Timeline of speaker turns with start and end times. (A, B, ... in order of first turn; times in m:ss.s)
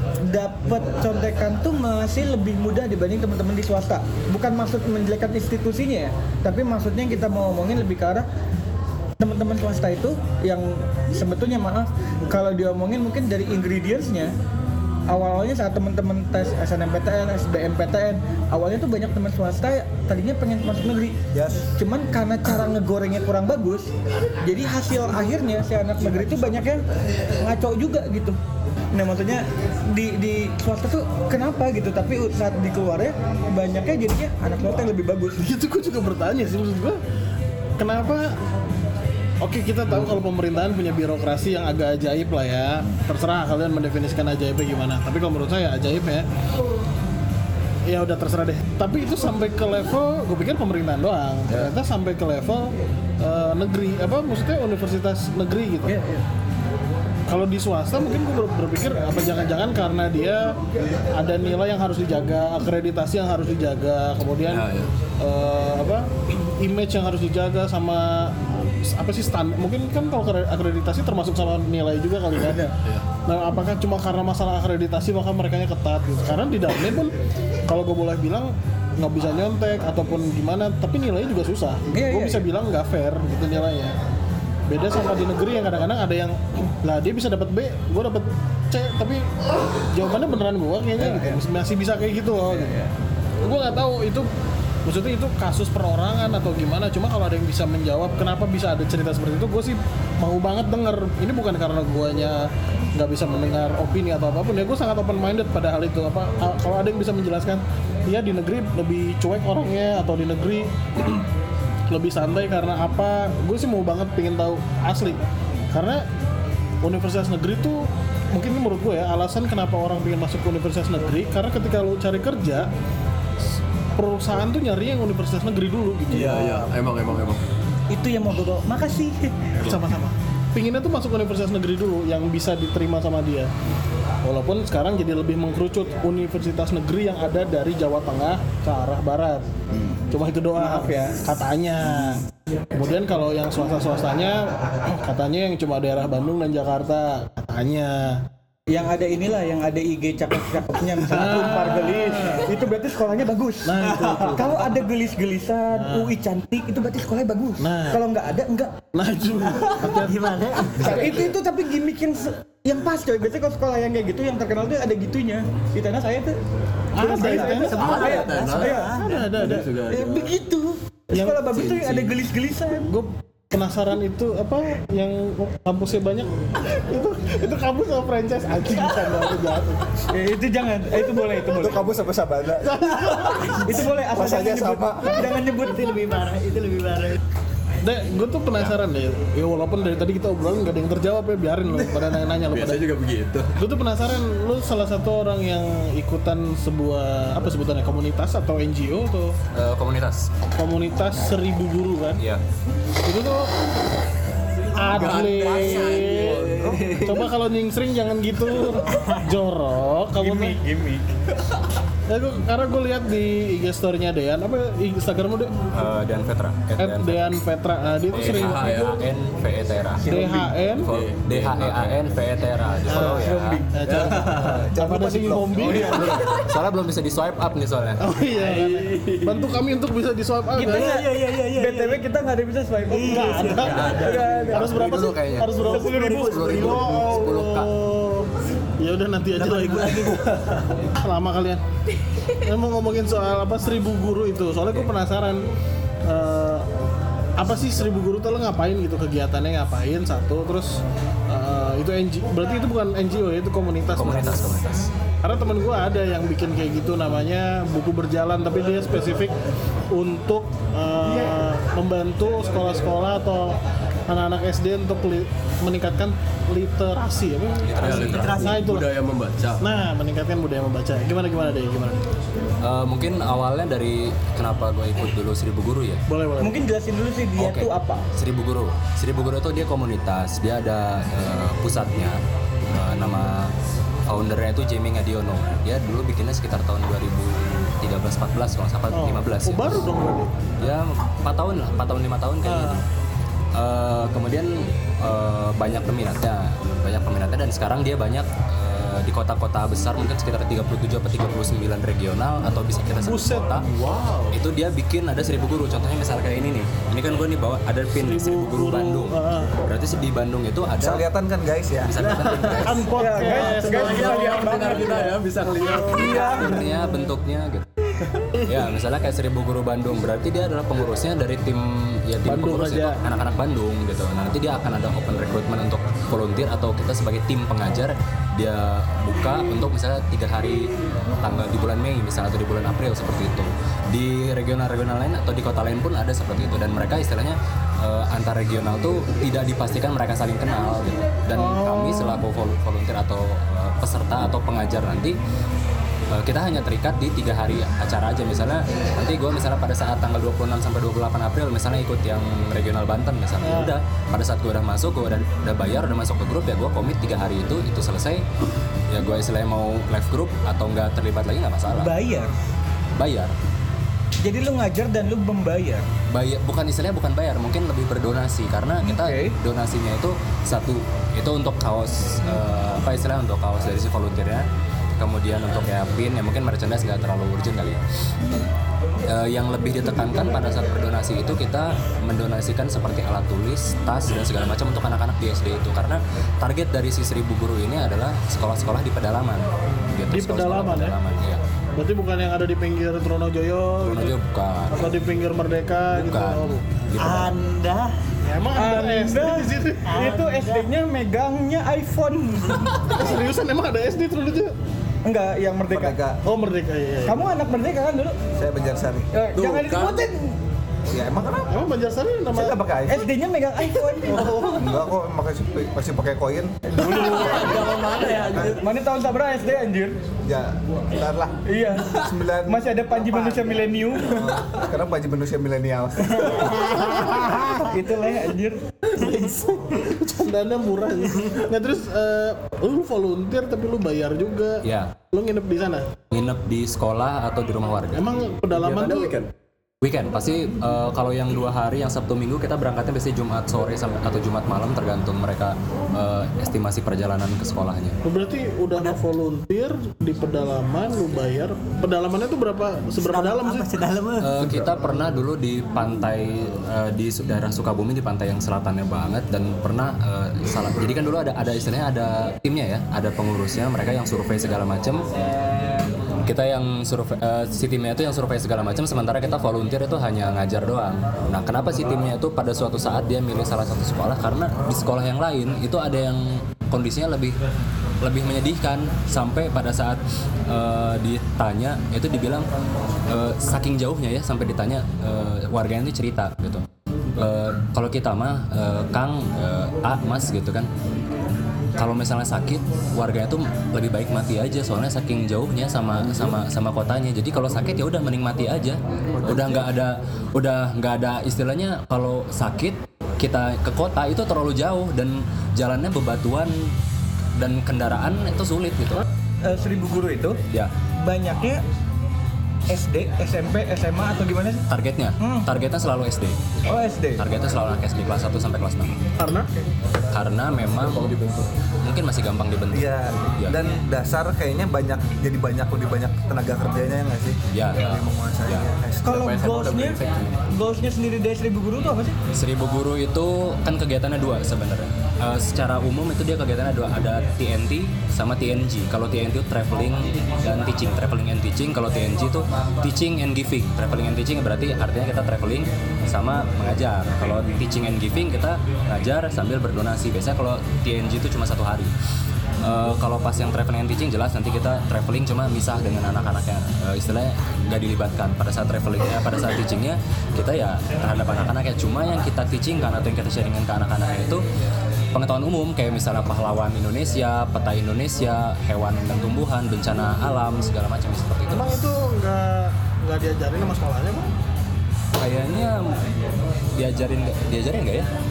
0:00.2-0:08.2 A
0:09.2-0:14.3 A
0:15.1-0:21.2 A
0:21.3-0:21.7 B
0:21.7-0:23.9 A
0:24.4-0:26.8 A
0:27.4-0:28.4 A
0:28.9-0:35.5 A
0:35.4-0:37.0 C
0:37.8-0:38.4 C
0:39.4-0:46.3 C
0:47.9-0:56.0 C
0:51.5-0:51.7 D
0:55.8-0:56.2 D
0:57.3-1:00.5 C
1:01.1-1:04.7 C
1:04.5-1:04.8 E
1:05.2-1:12.7 C
1:13.3-1:17.1 C
1:17.7-1:23.9 C
1:21.9-1:22.4 A
1:24.7-1:29.3 C
1:29.9-1:32.8 C
1:31.0-1:31.4 A
1:33.4-1:34.3 C
1:34.8-1:51.3 C
1:51.9-1:55.2 C
1:55.7-1:56.0 C
1:56.8-2:02.7 C
2:04.0-2:06.7 C
2:06.1-2:07.4 D
2:07.9-2:09.3 A
2:09.6-2:13.5 C
2:14.2-2:19.4 C
2:20.1-2:28.2 C
2:20.6-2:21.1 A
2:28.7-2:38.8 A
2:31.0-2:32.6 C
2:33.6-2:34.8 C
2:35.7-2:36.1 C
2:37.6-2:38.0 C
2:38.9-2:40.7 C
2:39.6-2:41.0 F
2:40.7-2:46.3 A
2:40.8-2:41.3 D
2:47.0-2:48.2 C
2:47.0-2:49.0 A
2:47.0-2:50.4 D
2:47.4-2:49.1 F
2:49.0-2:49.7 C
2:49.9-2:52.9 A
2:51.1-2:51.5 C
2:51.5-2:52.2 D
2:52.8-2:59.9 C
3:00.1-3:01.9 A
3:01.5-3:05.4 B
3:02.7-3:03.6 C
3:03.6-3:06.1 A
3:05.7-3:07.2 F
3:07.8-3:12.9 C
3:12.4-3:13.6 D
3:13.6-3:19.3 C
3:19.5-3:20.3 E
3:20.6-3:22.2 C
3:23.0-3:23.5 C
3:24.7-3:30.6 C
3:24.8-3:27.3 D
3:30.2-3:31.1 A
3:32.1-3:35.5 C
3:35.7-3:37.4 E
3:36.8-3:38.8 C
3:38.1-3:40.1 E
3:38.1-3:39.0 D
3:40.0-3:40.9 C
3:40.1-3:42.2 D
3:40.2-3:40.4 A
3:40.8-3:43.6 E
3:42.9-3:46.1 C
3:42.9-3:44.1 A
3:43.8-3:44.6 D
3:44.2-3:45.8 B
3:45.6-3:46.4 D
3:45.8-3:48.6 E
3:48.0-3:50.9 C
3:50.6-3:55.0 A
3:50.6-3:52.0 F
3:53.0-3:54.0 F
3:53.0-4:00.2 C
3:53.7-3:57.7 E
3:55.6-3:56.8 A
3:59.3-4:00.6 F
4:01.0-4:01.6 C
4:02.5-4:05.4 C
4:06.0-4:06.7 C
4:07.4-4:14.4 C
4:13.9-4:14.9 E
4:15.2-4:19.3 C
4:19.9-4:28.9 C
4:27.6-4:28.4 E
4:27.8-4:29.6 D
4:27.8-4:28.6 F
4:29.6-4:32.0 C
4:32.6-4:36.0 E
4:36.1-4:36.6 C
4:36.4-4:38.0 A
4:37.4-4:43.5 E
4:44.1-4:49.9 E
4:48.9-4:50.3 C
4:50.6-4:52.8 E
4:52.4-4:52.8 C
4:53.6-5:03.7 E
5:03.0-5:03.5 C
5:03.5-5:04.4 D
5:04.3-5:11.1 E
5:08.0-5:09.5 C
5:10.8-5:12.6 B
5:11.8-5:13.5 E
5:12.6-5:16.7 C
5:12.9-5:15.2 A
5:13.3-5:16.5 D
5:15.8-5:17.7 E
5:15.9-5:16.8 A
5:18.1-5:18.5 C
5:18.4-5:45.2 E
5:22.2-5:23.0 C
5:41.4-5:42.2 C
5:46.1-5:58.2 E
5:53.4-5:53.7 C
5:58.9-6:01.9 E
6:01.7-6:02.3 A
6:03.0-6:03.3 E
6:04.2-6:05.9 A
6:06.1-6:14.5 E
6:08.8-6:09.4 A
6:15.0-6:17.8 E
6:19.1-6:31.4 E
6:30.1-6:31.0 C
6:31.8-6:34.2 C
6:33.8-6:34.7 E
6:34.7-6:36.8 C
6:35.9-6:37.3 E
6:37.0-6:38.0 F
6:38.3-6:40.0 C
6:38.6-6:43.0 A
6:39.9-6:40.7 F
6:42.9-6:44.5 C
6:45.0-6:46.0 A
6:45.7-6:46.2 B
6:46.2-6:47.3 C
6:47.0-6:48.2 A
6:48.4-6:49.1 B
6:49.1-6:50.4 A
6:49.4-6:50.1 D
6:50.9-6:51.5 B
6:51.5-6:52.6 C
6:52.3-6:53.1 B
6:52.9-6:54.5 A
6:54.1-6:54.7 C
6:54.4-6:56.6 B
6:56.7-7:00.0 A
6:56.8-6:58.6 D
6:57.0-6:57.3 C
7:00.2-7:03.4 B
7:01.5-7:04.4 A
7:04.0-7:06.7 B
7:06.8-7:07.3 C
7:06.9-7:08.7 A
7:09.0-7:09.9 F
7:09.0-7:15.9 C
7:11.1-7:11.4 F
7:14.6-7:14.9 E
7:16.1-7:18.1 E
7:18.0-7:19.2 C
7:18.5-7:19.3 D
7:19.8-7:28.0 E
7:28.0-7:33.7 C
7:33.0-7:34.3 F
7:34.2-7:45.1 E
7:34.4-7:34.7 D
7:46.2-7:57.4 E
7:58.0-8:02.5 E
8:03.1-8:06.6 E
8:07.2-8:10.7 E
8:11.8-8:26.7 E
8:19.2-8:19.7 D
8:27.4-8:29.0 E
8:29.4-8:30.4 A
8:31.0-8:31.6 A
8:32.7-8:34.6 A
8:34.7-8:36.4 E
8:35.2-8:35.5 A
8:36.7-8:37.2 A
8:37.2-8:39.0 E
8:39.2-8:39.5 C
8:40.1-8:41.1 E
8:40.7-8:41.5 D
8:41.8-8:43.6 E
8:42.7-8:49.3 B
8:47.5-8:47.8 E
8:47.8-8:48.0 D
8:49.0-8:50.4 D
8:49.0-8:50.0 A
8:50.5-8:52.2 A
8:52.3-9:11.9 E
9:12.6-9:24.4 E
9:25.1-9:31.8 E
9:31.5-9:34.3 C
9:35.2-9:36.0 E
9:36.8-9:38.1 E